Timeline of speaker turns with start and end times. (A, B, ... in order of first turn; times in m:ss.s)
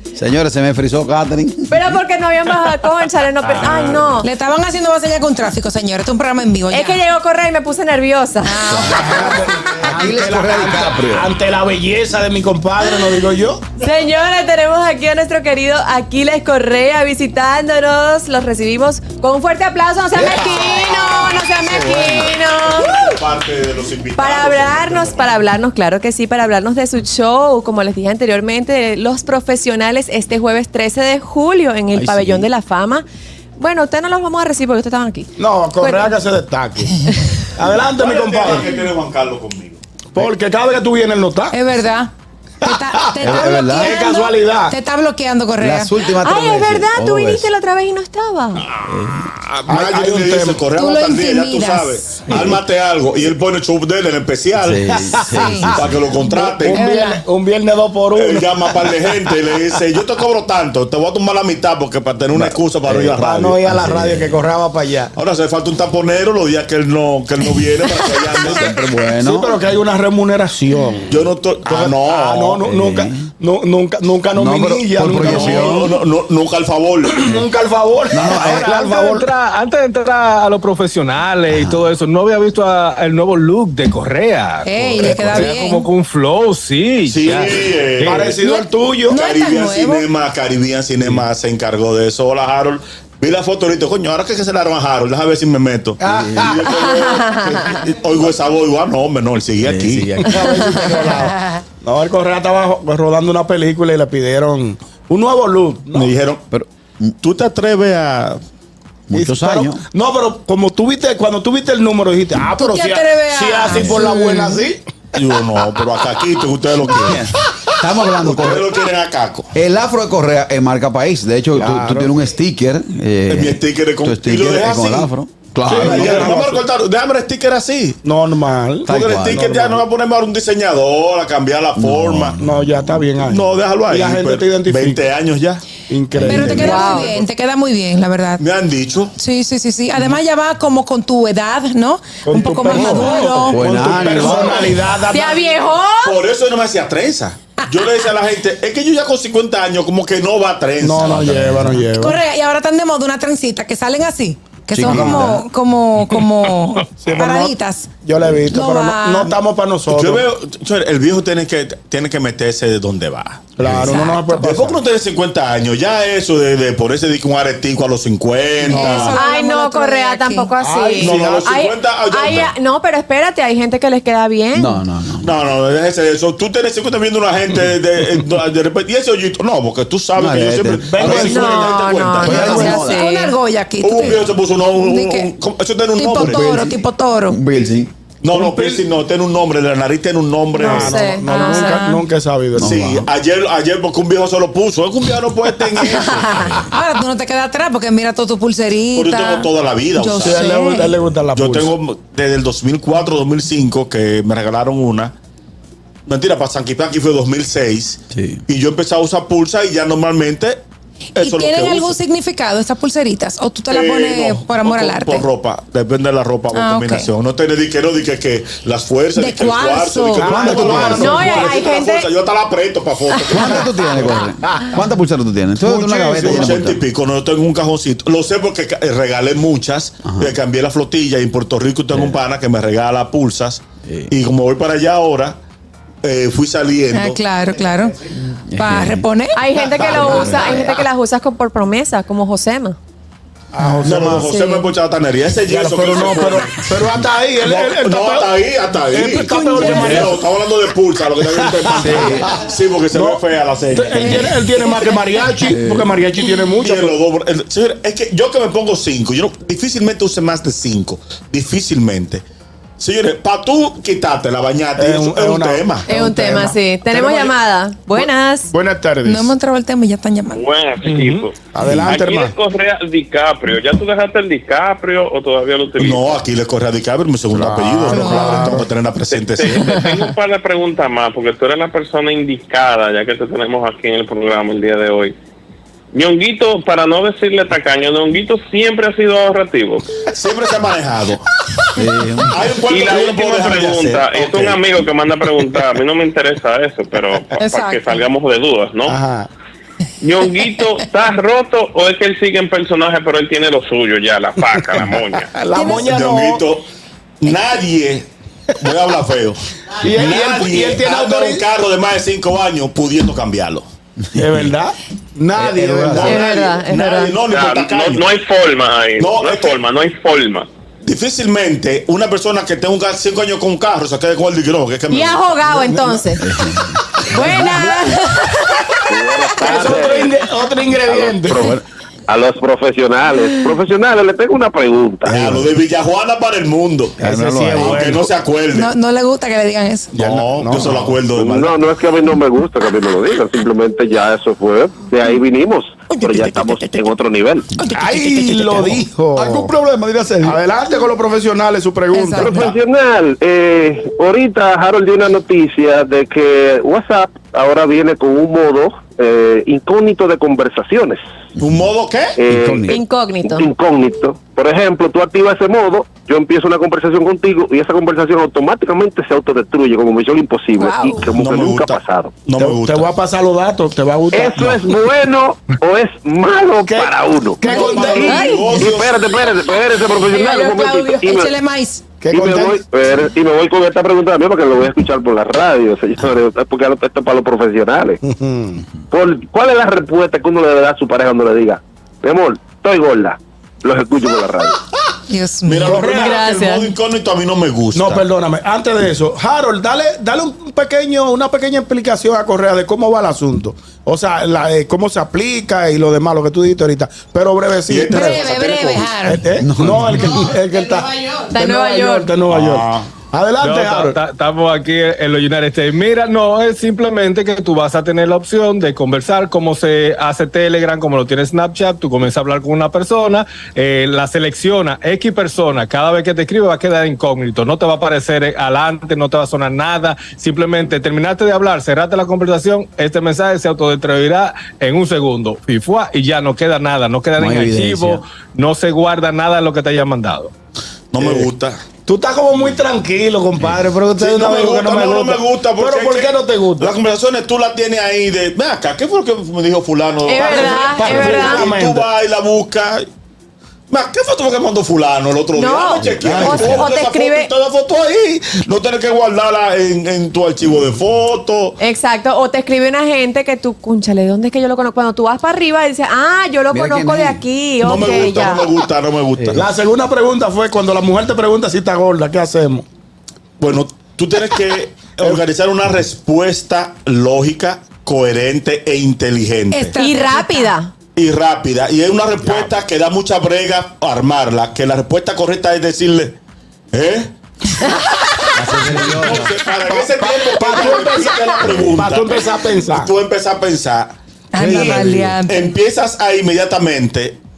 0:00.2-0:01.8 A
0:01.7-0:04.3 B
0:03.4-0:04.0 C
0:04.2-0:07.0 D
0:06.7-0:09.5 B
0:08.4-0:08.9 D
0:08.8-0:13.6 E
0:08.8-0:09.3 A
0:09.8-0:11.3 A
0:13.8-0:23.0 B
0:20.1-0:22.3 A
0:22.7-0:25.4 F
0:24.2-0:33.0 B
0:31.9-0:32.5 A
0:33.6-0:36.1 B
0:35.4-0:37.0 E
0:37.5-0:38.8 E
0:37.8-0:39.8 F
0:40.1-0:41.6 E
0:41.5-0:45.9 D
0:42.6-0:44.8 E
0:43.2-0:44.0 A
0:45.6-0:47.5 A
0:46.1-0:48.6 B
0:48.6-0:48.8 F
0:48.9-0:49.3 A
0:49.5-0:50.7 E
0:49.7-0:54.9 F
0:50.7-0:52.3 D
0:54.6-0:56.0 A
0:54.9-0:55.7 E
0:55.3-0:57.2 D
0:55.7-0:56.8 F
0:56.3-0:59.8 E
0:58.1-1:03.6 F
1:02.8-1:04.4 A
1:03.2-1:05.1 E
1:05.1-1:08.6 F
1:08.4-1:15.9 E
1:08.4-1:09.6 A
1:11.1-1:12.7 F
1:12.6-1:13.3 A
1:14.3-1:15.9 A
1:15.2-1:17.3 F
1:17.0-1:19.3 E
1:18.1-1:18.8 A
1:18.4-1:28.3 C
1:21.5-1:21.9 A
1:24.6-1:25.9 D
1:25.0-1:25.8 E
1:27.0-1:28.3 F
1:28.0-1:29.2 E
1:28.4-1:30.0 D
1:29.1-1:40.3 F
1:36.0-1:36.7 E
1:36.1-1:36.7 A
1:36.7-1:37.6 B
1:39.6-1:40.8 A
1:40.3-1:46.2 E
1:40.3-1:41.1 B
1:45.9-1:46.4 F
1:47.2-1:48.4 F
1:49.1-1:49.8 A
1:49.1-1:54.8 E
1:52.5-1:54.6 D
1:53.7-1:54.1 A
1:55.1-1:57.2 F
1:57.8-1:58.7 A
1:58.2-1:59.5 F
1:59.5-2:06.1 A
2:01.5-2:02.2 E
2:03.3-2:05.1 F
2:05.6-2:06.7 E
2:05.7-2:08.0 F
2:08.0-2:09.9 E
2:08.8-2:09.5 A
2:08.8-2:12.4 F
2:11.8-2:13.0 A
2:12.4-2:15.1 E
2:13.2-2:17.2 F
2:15.8-2:17.2 E
2:16.2-2:16.5 A
2:16.3-2:18.4 D
2:16.6-2:17.1 B
2:18.4-2:19.1 F
2:19.2-2:23.6 D
2:22.2-2:25.5 E
2:23.5-2:24.6 A
2:23.5-2:24.8 F
2:25.1-2:26.2 B
2:26.0-2:31.4 F
2:30.8-2:32.2 E
2:31.0-2:31.9 A
2:31.9-2:39.3 D
2:34.7-2:35.5 A
2:34.8-2:35.3 E
2:37.0-2:40.3 E
2:39.9-2:43.7 F
2:43.6-2:44.8 E
2:43.6-2:44.0 A
2:43.8-2:44.4 D
2:44.4-2:49.2 F
2:48.6-2:50.5 D
2:48.7-2:49.1 E
2:49.1-2:54.8 B
2:50.6-2:51.6 E
2:50.9-2:52.5 F
2:54.5-2:55.3 A
2:55.2-3:02.5 F
3:00.2-3:01.3 A
3:00.8-3:01.7 E
3:01.2-3:03.4 B
3:02.2-3:05.3 D
3:02.2-3:03.0 A
3:03.8-3:06.6 F
3:05.9-3:07.4 D
3:06.2-3:07.9 A
3:08.2-3:11.1 F
3:08.3-3:08.9 E
3:10.6-3:11.9 B
3:10.6-3:12.0 D
3:10.6-3:12.8 E
3:12.6-3:13.1 A
3:12.6-3:16.6 F
3:15.9-3:16.6 B
3:16.6-3:20.9 D
3:18.9-3:20.5 F
3:20.2-3:21.7 E
3:21.3-3:25.1 F
3:26.1-3:30.6 F
3:28.1-3:28.4 A
3:31.2-3:32.0 F
3:31.2-3:35.2 D
3:33.7-3:44.3 F
3:36.5-3:37.1 D
3:39.1-3:40.7 D
3:40.2-3:41.7 E
3:40.2-3:41.3 A
3:40.9-3:42.1 B
3:43.1-3:43.6 B
3:43.3-3:46.8 A
3:44.4-3:44.8 E
3:45.6-3:46.6 E
3:46.1-3:55.4 F
3:50.1-3:50.3 A
3:51.9-3:52.2 A
3:53.8-3:54.1 A
3:56.0-3:57.2 F
3:56.9-3:59.4 D
3:58.5-3:59.0 A
3:59.3-4:02.8 B
3:59.6-4:00.6 F
3:59.9-4:00.4 A
4:03.5-4:04.3 E
4:03.8-4:14.4 F
4:04.3-4:04.7 B
4:05.4-4:10.3 E
4:09.2-4:10.0 D
4:11.2-4:17.0 E
4:11.7-4:12.3 A
4:14.0-4:15.3 D
4:15.4-4:15.9 A
4:16.6-4:22.2 F
4:22.8-4:25.9 F
4:24.8-4:27.2 E
4:25.9-4:28.5 B
4:27.0-4:27.3 F
4:28.5-4:29.3 E
4:29.0-4:30.4 D
4:30.3-4:36.2 G
4:30.8-4:32.3 E
4:35.8-4:39.9 F
4:37.3-4:38.7 E
4:37.9-4:38.6 D
4:39.1-4:45.1 G
4:45.9-4:49.9 G
4:50.1-4:51.2 F
4:51.8-4:52.4 A
4:52.3-4:54.9 F
4:52.7-4:59.0 G
4:57.4-4:58.0 D
4:58.9-4:59.3 E
5:00.0-5:05.3 G
5:04.7-5:06.5 E
5:05.5-5:05.8 D
5:05.6-5:06.6 F
5:07.2-5:13.7 F
5:09.8-5:11.5 E
5:14.2-5:14.5 A
5:14.2-5:16.2 E
5:15.3-5:16.2 A
5:16.0-5:17.2 B
5:16.0-5:18.1 F
5:17.3-5:20.5 G
5:19.0-5:19.6 F
5:20.8-5:25.4 F
5:24.9-5:26.2 B
5:25.4-5:26.1 E
5:26.2-5:27.7 A
5:27.1-5:28.6 B
5:28.9-5:30.1 H
5:29.4-5:31.5 E
5:30.8-5:31.5 H
5:31.3-5:31.6 A
5:32.1-5:35.2 H
5:35.0-5:37.0 F
5:35.1-5:35.5 A
5:37.0-5:38.1 E
5:37.0-5:38.0 A
5:37.6-5:38.7 F
5:38.5-5:40.0 D
5:39.9-5:41.1 E
5:40.0-5:41.6 F
5:41.1-5:47.4 H
5:47.7-5:52.5 E
5:47.8-5:48.2 D
5:49.4-5:49.7 A
5:51.9-5:52.6 D
5:52.2-6:01.0 H
6:01.4-6:02.2 F
6:02.2-6:12.1 H
6:02.2-6:02.8 A
6:02.7-6:03.5 B
6:10.6-6:11.0 B
6:11.1-6:12.9 F
6:12.4-6:14.7 E
6:14.1-6:17.4 H
6:16.6-6:18.4 E
6:17.4-6:18.4 B
6:17.5-6:19.2 F
6:18.6-6:21.3 H
6:20.0-6:21.1 B
6:20.6-6:21.8 D
6:22.0-6:22.6 E
6:22.1-6:28.0 H
6:28.0-6:28.6 E
6:28.9-6:34.6 H
6:35.1-6:35.8 D
6:35.4-6:38.0 F
6:35.6-6:36.3 E
6:36.0-6:36.8 B
6:37.7-6:48.2 E
6:47.7-6:49.0 F
6:47.9-6:49.3 D
6:49.0-6:54.0 E
6:49.4-6:50.2 A
6:51.3-6:52.1 B
6:52.3-6:52.9 F
6:53.4-7:20.3 C
7:17.2-7:18.0 A
7:20.9-7:21.6 F
7:21.0-7:26.8 E
7:24.0-7:32.9 F
7:30.0-7:31.5 B
7:30.2-7:31.9 E
7:33.7-7:41.6 F
7:35.3-7:37.3 B
7:35.8-7:36.7 A
7:41.6-7:48.5 B
7:46.5-7:47.2 A
7:47.6-7:49.4 F
7:47.6-7:48.0 E
7:49.2-7:49.4 A
7:49.3-7:52.6 E
7:53.4-7:59.7 F
7:55.0-7:55.3 E
7:59.5-8:00.6 D
7:59.7-8:00.7 B
8:01.0-8:06.2 F
8:02.2-8:02.6 E
8:06.7-8:07.1 F
8:08.4-8:09.3 A
8:08.7-8:12.9 E
8:08.8-8:17.2 F
8:10.6-8:11.4 B
8:14.3-8:15.5 D
8:14.4-8:15.2 A